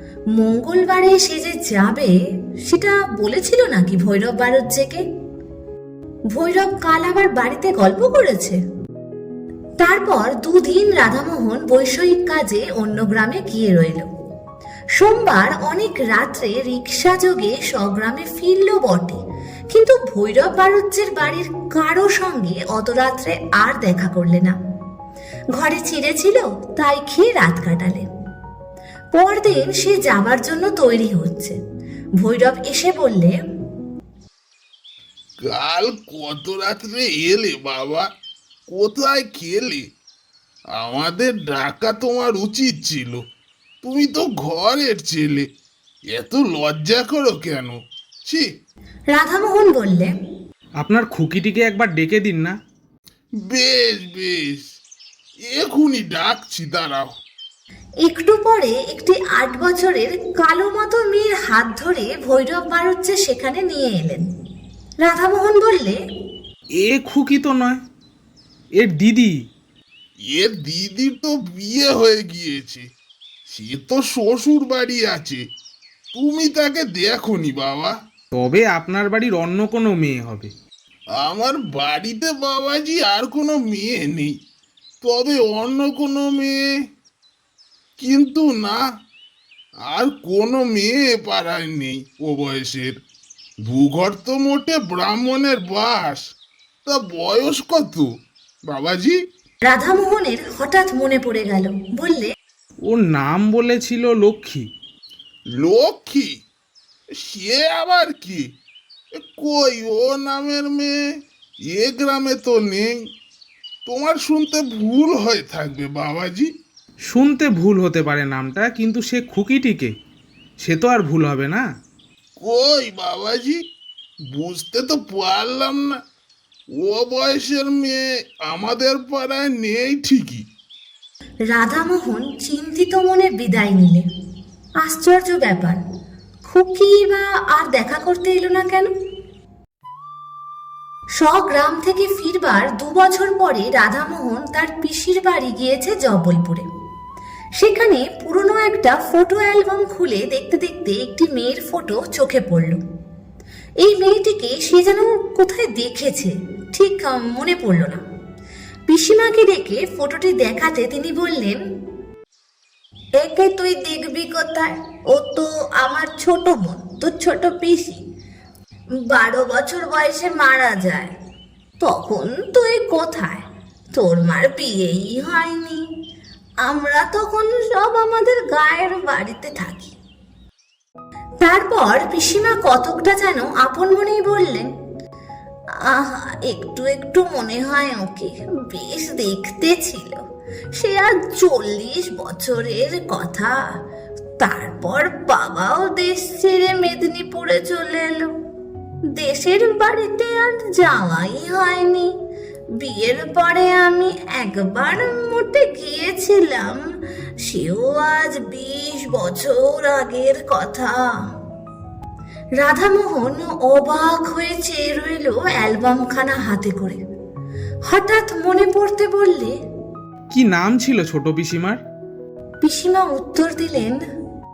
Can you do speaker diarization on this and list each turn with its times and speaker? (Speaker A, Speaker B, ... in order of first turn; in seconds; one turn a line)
Speaker A: 0.3-5.0
Speaker A: 6.3-8.6
Speaker A: 9.8-14.1
Speaker A: 14.9-19.2
Speaker A: 19.7-24.5
Speaker A: 25.5-28.1
Speaker A: 29.1-31.6
Speaker A: 32.2-33.4
Speaker B: 35.5-38.0
Speaker B: 38.7-39.8
Speaker B: 40.8-43.2
Speaker B: 43.8-45.4
Speaker B: 46.1-48.5
Speaker A: 49.1-50.1
Speaker C: 50.8-52.5
Speaker B: 53.5-54.6
Speaker B: 55.5-57.1
Speaker A: 58.0-64.2
Speaker A: 65.0-66.0
Speaker C: 66.8-67.8
Speaker C: 68.8-69.3
Speaker B: 70.3-72.8
Speaker B: 73.5-75.4
Speaker B: 76.1-77.9
Speaker C: 78.3-80.5
Speaker B: 81.2-84.3
Speaker B: 85.0-86.6
Speaker B: 88.0-88.8
Speaker B: 89.9-92.9
Speaker B: 93.7-96.2
Speaker B: 96.8-98.0
Speaker B: 98.7-99.2
Speaker A: 99.7-102.3
Speaker C: 102.9-104.6
Speaker B: 105.6-106.3
Speaker B: 107.2-108.4
Speaker B: 109.2-110.9
Speaker B: 111.7-113.0
Speaker B: 113.9-116.5
Speaker C: 117.1-119.9
Speaker C: 120.6-121.6
Speaker B: 122.4-123.6
Speaker B: 124.3-126.0
Speaker B: 126.8-130.4
Speaker A: 131.5-134.1
Speaker A: 134.8-135.8
Speaker A: 136.4-138.9
Speaker A: 141.2-146.6
Speaker A: 147.6-152.8
Speaker A: 153.8-158.0
Speaker A: 158.9-161.6
Speaker A: 163.2-168.0
Speaker A: 169.1-171.1
Speaker A: 171.8-173.4
Speaker A: 173.9-175.8
Speaker A: 176.6-179.9
Speaker A: 181.4-184.7
Speaker A: 185.8-190.2
Speaker A: 190.7-193.5
Speaker A: 194.4-198.3
Speaker A: 199.1-202.1
Speaker A: 202.8-206.8
Speaker A: 207.4-211.0
Speaker A: 212.6-217.0
Speaker A: 217.9-219.5
Speaker C: 220.3-221.8
Speaker A: 222.6-224.0